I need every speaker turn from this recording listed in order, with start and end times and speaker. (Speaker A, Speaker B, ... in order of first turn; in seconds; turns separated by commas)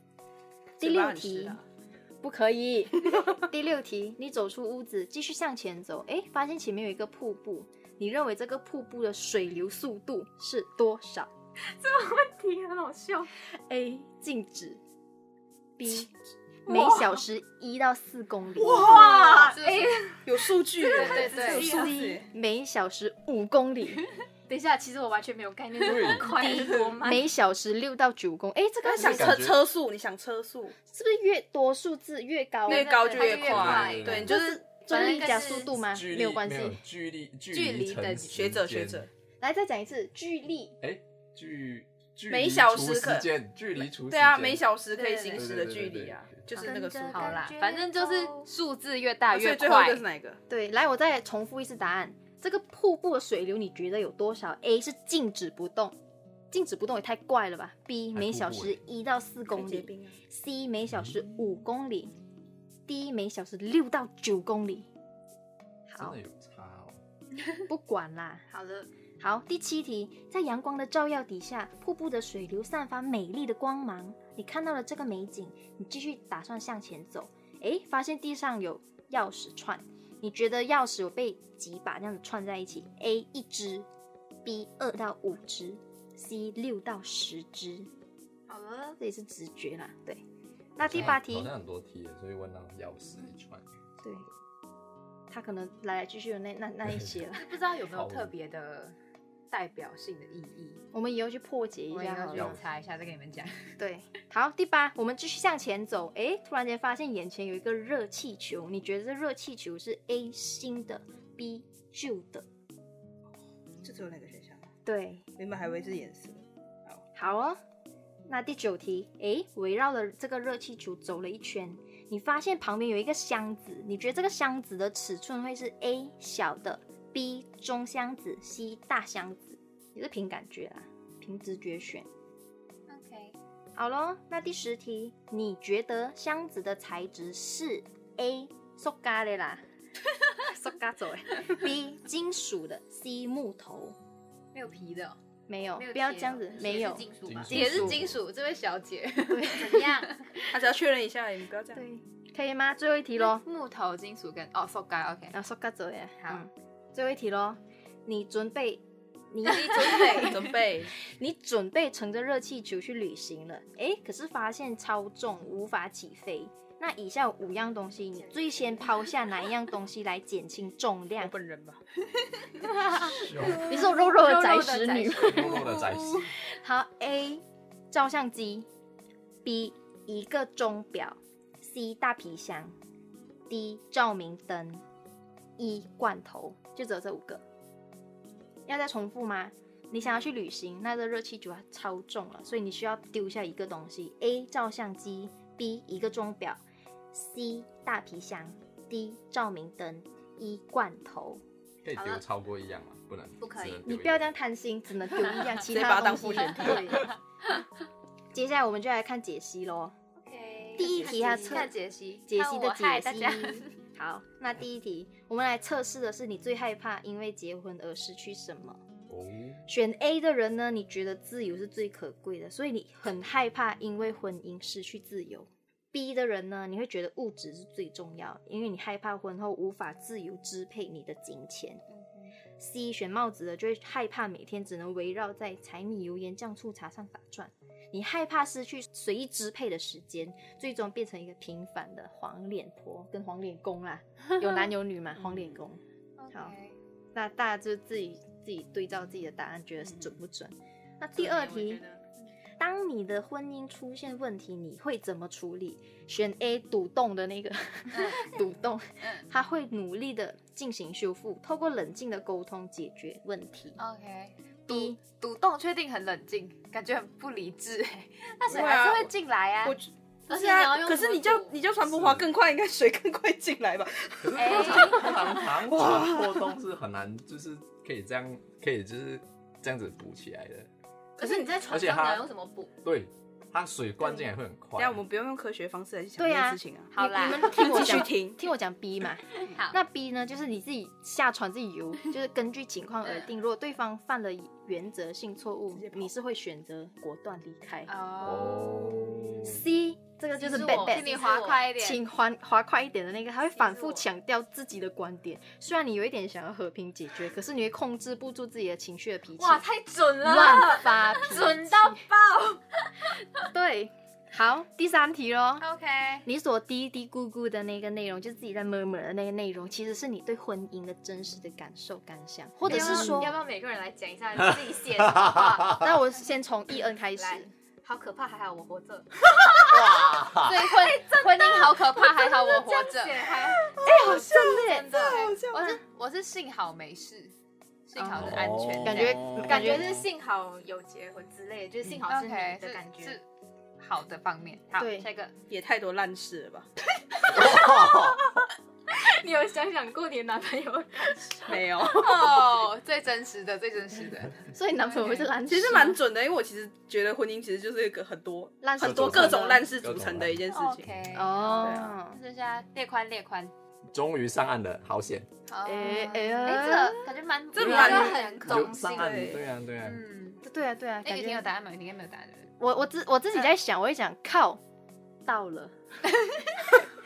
Speaker A: 0.8-1.6, Speaker B: 0.8-1.6, Speaker B: 2.2-11.3, Speaker C: 11.8-13.3, Speaker D: 11.9-13.1, Speaker B: 13.5-14.8, Speaker B: 15.8-16.1, Speaker B: 16.6-19.4, Speaker C: 16.7-17.2, Speaker A: 18.6-19.6, Speaker D: 18.8-20.2, Speaker A: 20.2-22.2, Speaker D: 20.8-21.9, Speaker B: 20.9-24.1, Speaker C: 21.2-21.7, Speaker D: 24.5-27.2, Speaker E: 25.8-26.4, Speaker C: 25.8-26.2, Speaker B: 26.2-29.4, Speaker A: 28.8-30.7, Speaker E: 29.0-29.6, Speaker B: 30.9-36.8, Speaker A: 32.7-34.6, Speaker D: 32.7-34.1, Speaker E: 33.5-34.3, Speaker C: 33.5-34.0, Speaker D: 34.9-35.7, Speaker C: 35.0-35.2, Speaker E: 35.7-39.0, Speaker C: 37.5-38.3, Speaker A: 38.3-39.1, Speaker B: 39.4-40.8, Speaker E: 40.8-44.6, Speaker A: 42.3-47.4, Speaker C: 44.9-45.4, Speaker E: 45.3-46.4, Speaker B: 46.5-47.5, Speaker C: 47.1-50.0, Speaker D: 47.3-48.5, Speaker A: 49.3-50.4, Speaker B: 50.5-56.0, Speaker B: 56.5-62.1, Speaker E: 58.1-58.8, Speaker A: 59.5-60.1, Speaker B: 62.9-64.9, Speaker B: 65.9-66.2, Speaker E: 66.0-67.0, Speaker B: 67.7-68.4, Speaker D: 68.5-68.9, Speaker B: 69.2-83.9, Speaker B: 84.4-87.9, Speaker D: 88.5-89.0, Speaker B: 89.0-90.2, Speaker B: 90.8-91.5, Speaker E: 90.8-93.6, Speaker B: 94.0-94.3, Speaker B: 95.3-97.5, Speaker C: 97.3-99.0, Speaker E: 97.9-98.3, Speaker C: 99.5-100.8, Speaker B: 100.9-102.6, Speaker C: 101.9-103.7, Speaker E: 102.3-102.6, Speaker B: 103.8-112.5, Speaker A: 113.8-114.7, Speaker B: 114.8-115.2, Speaker A: 115.4-117.0, Speaker B: 117.1-117.6, Speaker B: 118.3-132.1, Speaker C: 132.9-133.3, Speaker B: 133.7-139.6, Speaker B: 140.4-143.9, Speaker C: 144.5-145.2, Speaker B: 145.5-147.9, Speaker C: 145.8-150.5, Speaker D: 147.0-147.5, Speaker E: 147.2-148.2, Speaker B: 149.3-149.9, Speaker D: 149.5-150.1, Speaker A: 150.5-151.8, Speaker B: 151.7-153.4, Speaker C: 153.2-155.3, Speaker B: 155.3-171.3, Speaker C: 159.4-160.4, Speaker A: 160.1-160.9, Speaker D: 168.1-168.9, Speaker A: 171.2-171.8, Speaker C: 172.6-175.6, Speaker E: 173.0-173.6, Speaker B: 173.5-175.7, Speaker E: 175.1-176.3, Speaker B: 176.3-178.7, Speaker B: 179.4-182.7, Speaker B: 183.5-184.8, Speaker B: 185.6-187.4, Speaker B: 188.7-201.4, Speaker E: 201.8-204.2, Speaker D: 201.9-202.2, Speaker D: 203.4-203.8, Speaker B: 203.8-207.1, Speaker A: 205.7-207.0, Speaker B: 208.3-209.9, Speaker D: 210.3-211.6, Speaker C: 210.3-213.7, Speaker B: 210.8-211.7, Speaker A: 210.8-211.3, Speaker B: 212.3-218.8, Speaker E: 219.1-219.6, Speaker B: 219.7-231.8, Speaker C: 231.9-232.3, Speaker B: 232.6-245.8, Speaker C: 246.2-246.8, Speaker B: 247.1-251.8, Speaker D: 251.2-252.0, Speaker B: 252.6-263.8, Speaker C: 257.9-258.4, Speaker C: 263.8-269.8, Speaker B: 264.7-265.0, Speaker A: 268.5-276.5, Speaker D: 270.3-271.6, Speaker E: 271.9-272.3, Speaker E: 274.2-280.7, Speaker C: 274.4-275.3, Speaker D: 281.2-282.7, Speaker E: 281.7-282.3, Speaker E: 282.8-285.0, Speaker A: 284.8-288.4, Speaker B: 286.2-297.9, Speaker D: 286.9-287.7, Speaker C: 289.4-289.8, Speaker A: 295.8-296.1, Speaker C: 297.9-299.3, Speaker E: 298.2-299.6, Speaker B: 299.4-309.6, Speaker D: 300.4-301.7, Speaker C: 300.4-302.0, Speaker D: 303.6-304.0, Speaker D: 309.4-312.6, Speaker B: 310.2-312.0, Speaker B: 313.4-315.7, Speaker C: 315.6-316.3, Speaker B: 316.2-323.3, Speaker D: 322.6-325.8, Speaker C: 322.7-323.4, Speaker E: 325.0-325.5, Speaker B: 325.6-327.5, Speaker D: 327.1-333.6, Speaker E: 329.5-330.8, Speaker C: 330.4-333.2, Speaker A: 333.3-335.8, Speaker B: 333.8-334.9, Speaker C: 334.0-337.3, Speaker D: 334.9-335.3, Speaker C: 337.9-339.2, Speaker B: 337.9-339.9, Speaker E: 338.2-340.1, Speaker D: 339.4-343.2, Speaker C: 342.0-343.2, Speaker C: 343.8-345.3, Speaker B: 344.7-345.1, Speaker A: 345.5-346.7, Speaker E: 347.3-348.2, Speaker D: 347.3-348.3, Speaker D: 348.9-351.6, Speaker A: 351.4-352.5, Speaker C: 351.8-355.3, Speaker B: 354.5-356.0, Speaker A: 355.5-361.0, Speaker B: 358.6-359.6, Speaker E: 358.8-360.4, Speaker C: 360.5-363.5, Speaker B: 361.1-362.2, Speaker A: 361.6-361.9, Speaker E: 363.9-365.3, Speaker C: 365.5-368.7, Speaker B: 365.6-367.1, Speaker A: 367.5-368.2, Speaker E: 367.6-370.0, Speaker B: 367.6-367.9, Speaker D: 367.9-369.1, Speaker A: 368.8-369.4, Speaker C: 369.8-370.4, Speaker B: 370.4-371.5, Speaker C: 371.0-372.5, Speaker B: 372.6-374.6, Speaker B: 375.2-375.7